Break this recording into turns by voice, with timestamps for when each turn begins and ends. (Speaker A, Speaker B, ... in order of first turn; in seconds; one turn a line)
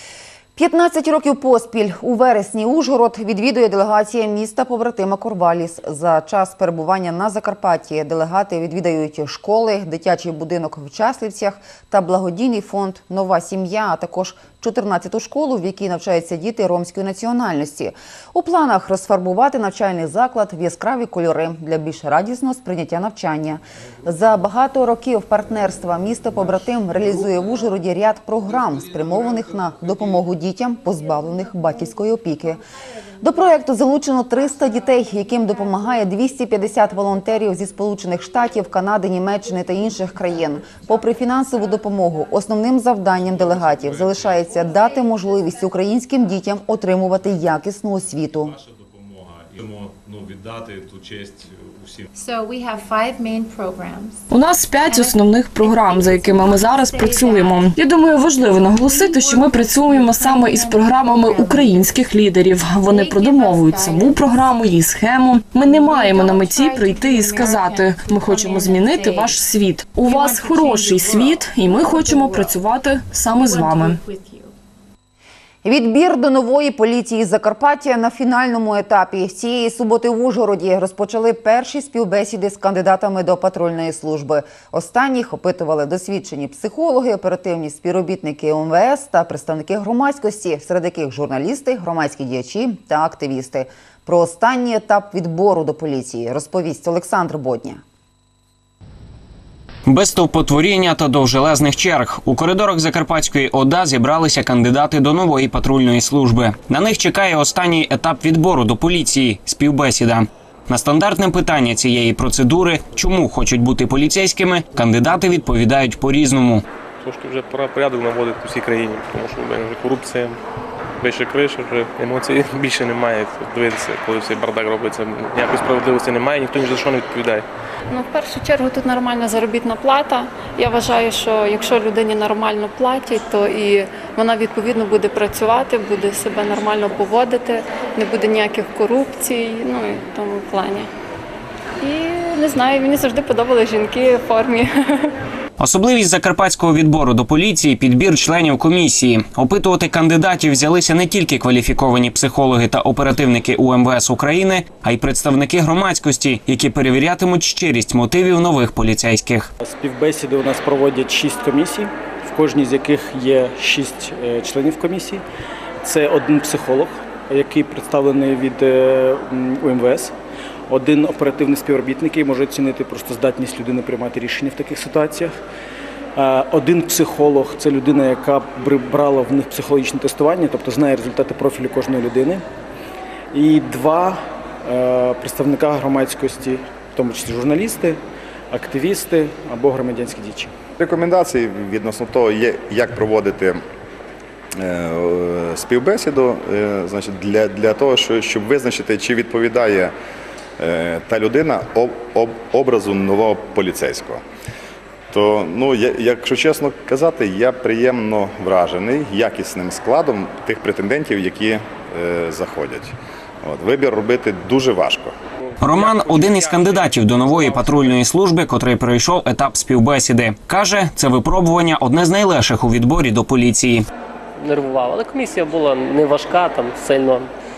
Speaker A: 0.6-32.6
Speaker A: 33.2-48.6
Speaker B: 43.4-44.2
Speaker B: 48.5-52.1
Speaker C: 52.2-54.2
Speaker D: 54.3-74.0
Speaker C: 55.6-57.5
Speaker C: 58.8-61.9
Speaker C: 62.9-64.1
Speaker C: 65.9-69.2
Speaker C: 70.1-72.4
Speaker C: 73.5-74.5
Speaker A: 75.6-97.8
Speaker E: 99.9-116.6
Speaker F: 117.0-120.4
Speaker F: 121.0-127.5
Speaker G: 127.9-140.9
Speaker G: 141.8-145.2
Speaker E: 145.6-159.5
Speaker H: 159.6-165.2
Speaker H: 165.8-170.1
Speaker H: 170.7-175.4
Speaker H: 176.2-182.4
Speaker H: 183.3-188.0
Speaker H: 188.5-190.5
Speaker I: 190.8-193.6
Speaker I: 194.6-199.9
Speaker I: 200.6-204.2
Speaker I: 205.1-215.2
Speaker E: 215.6-223.8
Speaker F: 215.7-218.0
Speaker J: 224.4-227.3